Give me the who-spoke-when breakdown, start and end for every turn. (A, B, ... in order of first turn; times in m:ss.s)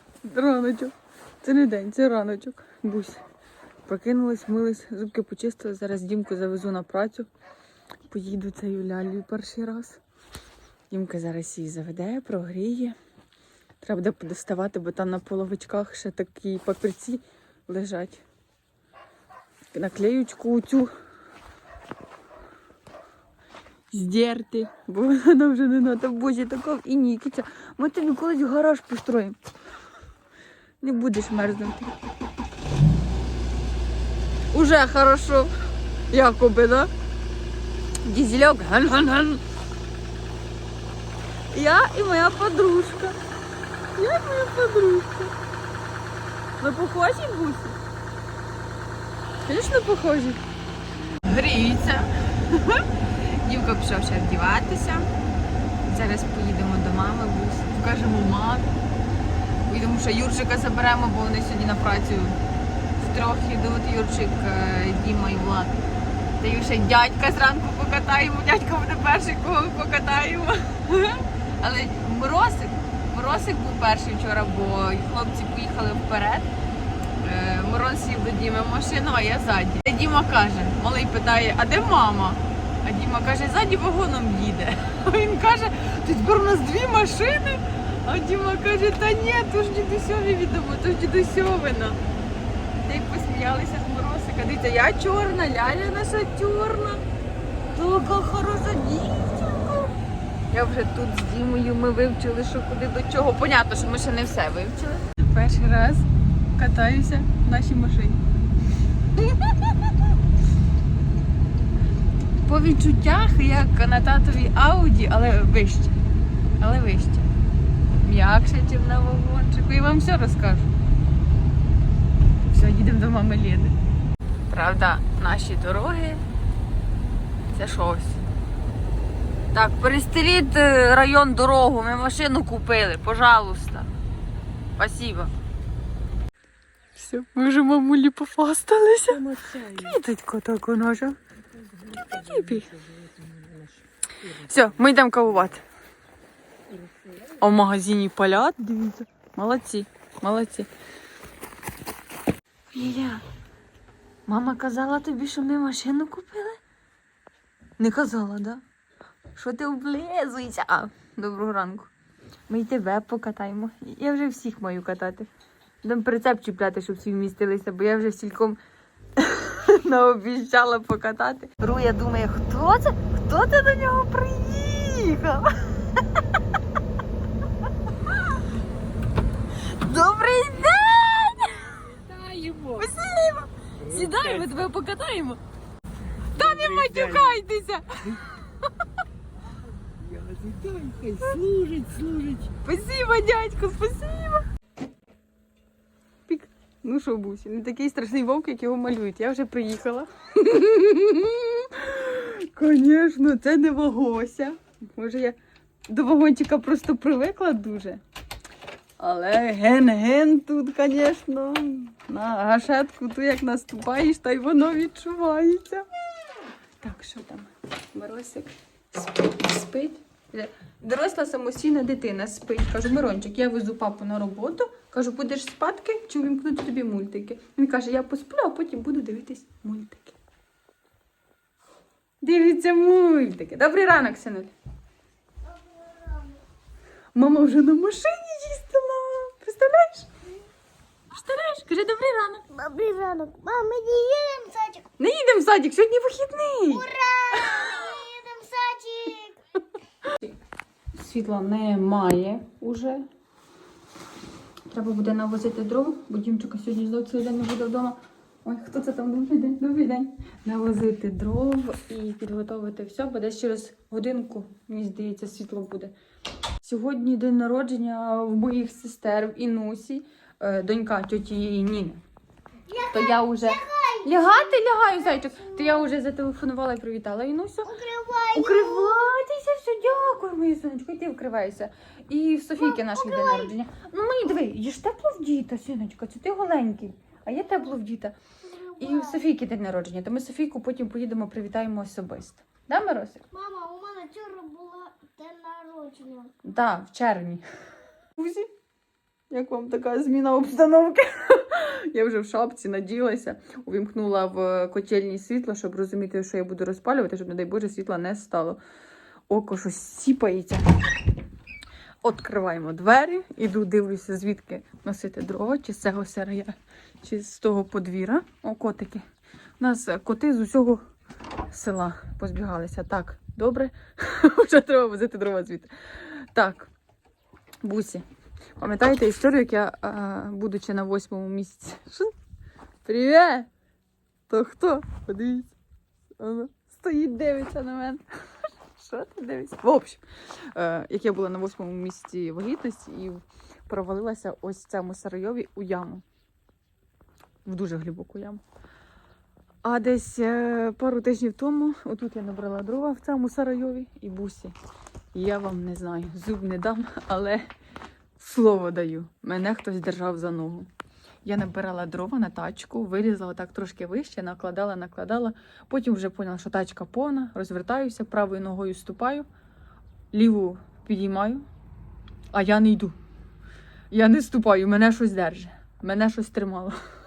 0:00.2-0:03.2 A
0:03.8-0:07.2 A
0:08.1-0:10.0 A
0:10.9-0:13.0 A
0:13.8-0:18.2 A
0:19.7-0:20.9 A
0:23.9-0:29.4 A
0:30.8-0:32.0 A
0:34.5-0:35.5 A
0:36.1-0:36.9 A
0:38.0-0:39.4 A
0:41.5-0:43.2 A
0:44.0-0:45.3 A
0:46.6-0:47.8 A
0:49.4-0:50.4 A
0:51.2-0:55.1 A
0:55.8-0:58.7 A
0:59.7-1:02.4 A
1:03.0-1:05.8 A
1:06.4-1:16.5 A
1:17.2-1:32.0 A
1:32.8-1:37.0 A
1:37.7-1:39.9 A
1:40.5-1:48.2 A
1:49.2-1:49.7 A
1:52.4-1:56.0 A
1:56.6-1:57.3 A
1:58.0-2:00.7 A
2:02.5-2:03.8 A
2:04.5-2:06.2 A
2:07.5-2:08.2 A
2:09.5-2:13.9 A
2:14.8-2:15.3 A
2:17.0-2:19.2 A
2:19.1-2:20.0 B
2:19.7-2:21.2 A
2:21.6-2:24.6 B
2:22.1-2:22.7 A
2:24.4-2:25.6 A
2:26.7-2:27.3 B
2:27.4-2:30.7 A
2:32.7-2:33.2 A
2:34.3-2:36.6 A
2:37.8-2:38.6 A
2:39.3-2:41.9 A
2:42.5-2:45.3 A
2:45.8-2:48.6 A
2:49.2-2:56.2 A
2:59.6-3:02.0 A
3:02.0-3:02.9 B
3:02.8-3:05.4 A
3:03.8-3:04.5 B
3:06.3-3:08.2 A
3:06.3-3:07.4 B
3:09.8-3:12.5 B
3:12.6-3:14.4 A
3:16.3-3:25.4 A
3:25.9-3:28.0 A
3:29.0-3:35.8 A
3:36.8-3:50.2 A
3:52.2-3:54.5 A
3:55.4-3:56.4 C
3:57.1-4:00.1 A
4:01.1-4:02.4 A
4:02.5-4:04.9 C
4:05.0-4:07.8 A
4:06.7-4:09.4 C
4:10.0-4:10.3 A
4:10.9-4:13.0 A
4:14.7-4:25.9 A
4:26.6-4:32.0 A
4:32.7-4:34.6 C
4:32.9-4:37.7 A
4:35.2-4:35.8 C
4:37.6-4:39.0 C
4:38.3-4:48.2 A
4:42.6-4:43.5 C
4:48.4-4:49.2 C
4:48.8-4:53.2 A
4:53.3-4:56.3 C
4:56.4-4:57.4 A
4:58.2-4:58.5 A
4:59.3-5:08.6 A
5:09.3-5:10.7 A
5:12.0-5:19.0 A
5:19.6-5:20.8 A
5:21.5-5:26.7 A
5:27.6-5:28.0 A
5:28.6-5:32.1 A
5:32.8-5:33.5 A
5:34.3-5:35.5 A
5:36.2-5:38.0 A
5:38.8-5:46.0 A
5:47.4-5:48.4 A
5:49.6-5:54.5 A
5:55.1-5:57.5 A
5:58.2-6:00.7 A
6:01.2-6:09.2 A
6:10.1-6:11.4 A
6:12.3-6:13.0 A
6:13.9-6:16.8 A